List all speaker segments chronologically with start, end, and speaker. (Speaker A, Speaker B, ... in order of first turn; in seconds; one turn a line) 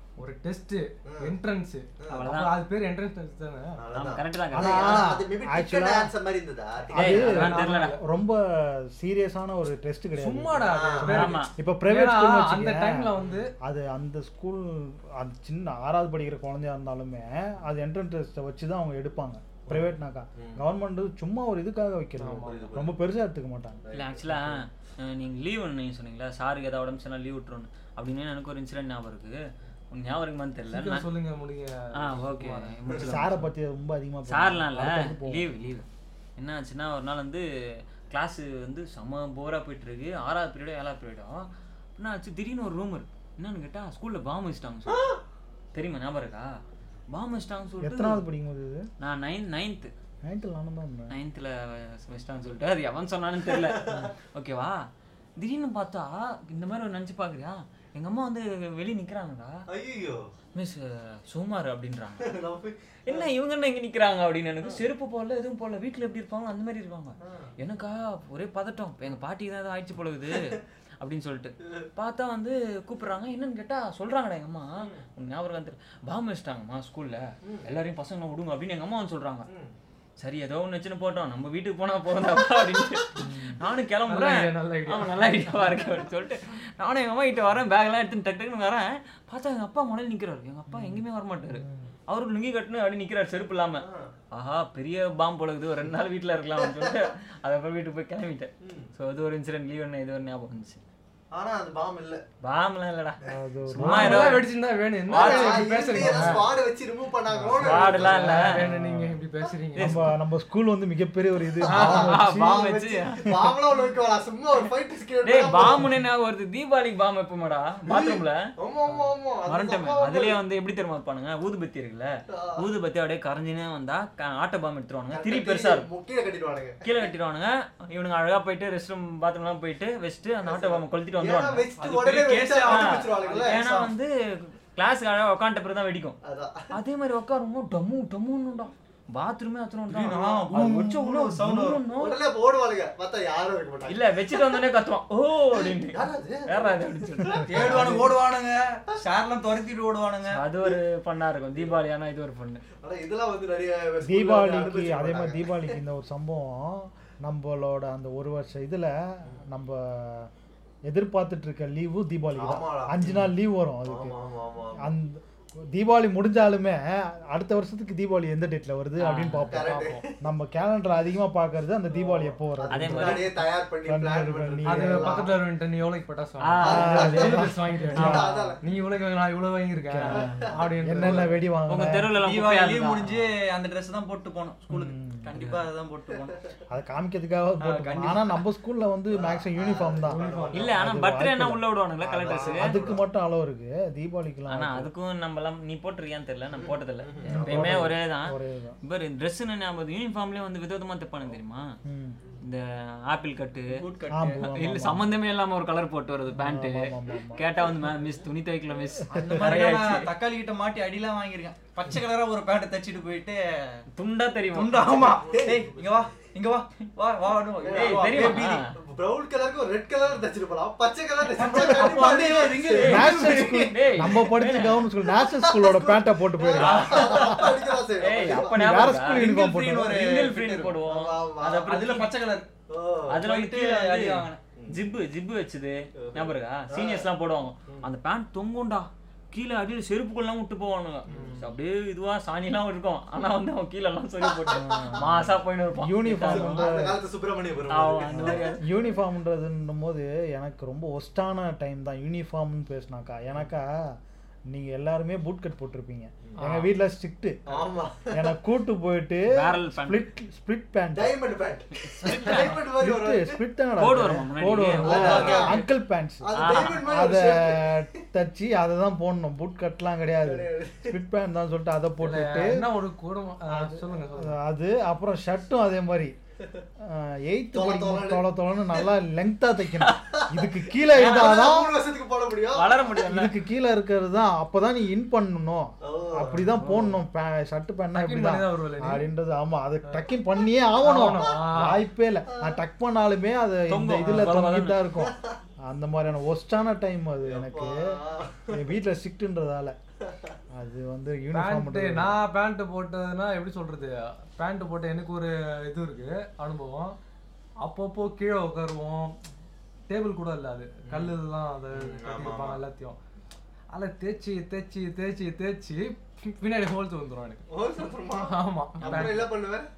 Speaker A: 0.2-3.8
Speaker B: 1.1-1.4
Speaker B: 2.0-2.2
Speaker C: 2.1-2.5
Speaker B: 3.8-7.1
Speaker C: 3.9-5.1
Speaker D: 4.5-6.1
Speaker D: 6.9-23.8
Speaker C: 6.9-8.0
Speaker A: 7.0-8.0
Speaker A: 10.2-13.5
Speaker B: 10.7-11.3
Speaker C: 11.0-11.5
Speaker B: 13.2-13.4
Speaker B: 19.7-20.6
Speaker A: 22.2-22.7
Speaker B: 22.4-23.0
Speaker B: 23.8-24.6
Speaker C: 23.9-29.4
Speaker C: 29.9-31.0
Speaker A: 30.7-32.7
Speaker C: 31.9-33.5
Speaker B: 32.9-33.1
Speaker D: 33.0-35.5
Speaker C: 34.3-35.9
Speaker C: 36.4-37.5
Speaker C: 38.1-45.1
Speaker C: 45.7-46.5
Speaker C: 47.1-48.2
Speaker D: 47.8-48.9
Speaker C: 49.0-49.9
Speaker D: 50.2-51.1
Speaker C: 51.1-54.9
Speaker B: 53.5-54.1
Speaker C: 55.4-59.6
Speaker B: 59.7-60.2
Speaker C: 60.5-62.3
Speaker B: 62.2-63.3
Speaker C: 63.1-79.5
Speaker B: 67.2-67.5
Speaker B: 74.8-75.0
Speaker B: 79.5-79.7
Speaker C: 80.2-100.8
Speaker D: 83.2-83.6
Speaker A: 84.1-85.7
Speaker D: 90.7-91.9
Speaker B: 93.8-94.1
Speaker B: 96.6-97.1
Speaker B: 98.6-98.9
Speaker B: 101.3-102.2
Speaker C: 102.4-104.4
Speaker D: 103.2-104.4
Speaker A: 103.8-106.4
Speaker B: 105.1-108.4
Speaker C: 105.1-106.4
Speaker D: 106.0-106.4
Speaker D: 107.3-107.9
Speaker C: 107.5-108.4
Speaker A: 108.0-110.0
Speaker D: 108.5-109.2
Speaker C: 109.8-110.1
Speaker D: 109.8-112.6
Speaker B: 111.6-115.9
Speaker A: 111.7-112.1
Speaker C: 111.7-113.2
Speaker C: 115.2-118.4
Speaker B: 117.8-120.4
Speaker C: 119.5-125.9
Speaker B: 122.3-122.7
Speaker B: 125.1-126.8
Speaker C: 126.8-131.7
Speaker B: 130.4-133.6
Speaker E: 131.8-133.9
Speaker C: 132.6-136.2
Speaker B: 136.2-136.7
Speaker C: 136.7-142.2
Speaker E: 139.9-141.9
Speaker B: 141.9-144.0
Speaker C: 143.9-148.0
Speaker B: 145.5-148.1
Speaker E: 147.4-150.4
Speaker C: 150.3-152.6
Speaker B: 151.6-151.8
Speaker B: 152.7-155.7
Speaker D: 154.1-160.3
Speaker D: 160.9-164.1
Speaker B: 162.3-163.2
Speaker B: 163.8-164.9
Speaker D: 164.8-175.3
Speaker C: 169.0-169.5
Speaker B: 169.5-170.2
Speaker A: 169.7-170.0
Speaker B: 171.9-175.4
Speaker C: 172.7-173.4
Speaker A: 174.6-181.3
Speaker C: 176.4-178.3
Speaker B: 176.6-178.6
Speaker D: 176.6-178.5
Speaker D: 179.8-182.1
Speaker B: 180.1-181.2
Speaker C: 181.7-183.2
Speaker E: 182.1-186.4
Speaker D: 184.7-185.3
Speaker C: 185.3-185.7
Speaker D: 186.7-191.6
Speaker E: 187.6-188.4
Speaker B: 189.1-190.7
Speaker A: 190.0-190.7
Speaker C: 190.5-192.8
Speaker B: 192.0-193.0
Speaker D: 192.3-194.9
Speaker C: 194.5-201.8
Speaker B: 196.5-197.7
Speaker D: 197.3-198.8
Speaker D: 201.8-202.2
Speaker C: 202.4-210.1
Speaker E: 203.7-204.6
Speaker D: 204.1-205.1
Speaker D: 206.3-207.5
Speaker B: 207.5-207.9
Speaker D: 209.0-209.5
Speaker E: 209.1-213.8
Speaker C: 213.9-214.8
Speaker E: 214.5-218.6
Speaker B: 214.8-215.9
Speaker B: 217.6-223.3
Speaker C: 217.7-218.7
Speaker E: 221.3-224.1
Speaker C: 221.5-222.0
Speaker C: 222.6-224.8
Speaker D: 222.8-227.5
Speaker B: 225.1-228.6
Speaker C: 226.6-229.2
Speaker E: 226.6-227.4
Speaker D: 228.3-230.0
Speaker E: 229.0-230.8
Speaker C: 229.8-232.1
Speaker B: 230.8-231.8
Speaker E: 231.6-232.5
Speaker B: 232.7-233.2
Speaker C: 233.1-246.7
Speaker E: 233.2-234.4
Speaker B: 234.5-234.8
Speaker B: 236.0-237.1
Speaker B: 241.1-241.4
Speaker B: 244.2-245.3
Speaker D: 244.7-247.0
Speaker B: 246.0-248.9
Speaker C: 247.7-248.7
Speaker D: 248.1-253.8
Speaker D: 254.5-261.1
Speaker B: 257.5-258.3
Speaker C: 259.3-260.1
Speaker B: 260.9-263.4
Speaker C: 261.9-262.6
Speaker D: 262.3-272.7
Speaker C: 263.8-265.7
Speaker B: 264.8-265.6
Speaker B: 266.2-267.9
Speaker C: 266.3-266.9
Speaker B: 270.2-271.0
Speaker A: 272.0-274.4
Speaker D: 273.5-276.1
Speaker D: 276.8-281.7
Speaker B: 277.5-278.9
Speaker C: 279.7-280.0
Speaker B: 280.1-282.9
Speaker C: 280.9-281.5
Speaker C: 282.5-283.3
Speaker D: 283.0-295.1
Speaker B: 285.8-286.5
Speaker C: 286.5-287.0
Speaker A: 287.9-289.0
Speaker A: 290.8-291.8
Speaker B: 292.3-292.6
Speaker C: 293.7-294.8
Speaker A: 294.0-294.3
Speaker B: 294.9-295.4
Speaker D: 295.6-297.9
Speaker B: 297.2-298.7
Speaker D: 298.5-299.7
Speaker B: 300.1-300.4
Speaker D: 300.5-302.1
Speaker A: 301.3-307.0
Speaker A: 307.6-309.1
Speaker A: 309.9-313.0
Speaker B: 310.9-311.1
Speaker B: 311.7-312.6
Speaker A: 313.7-317.4
Speaker B: 317.5-319.7
Speaker A: 318.2-319.2
Speaker C: 318.8-319.2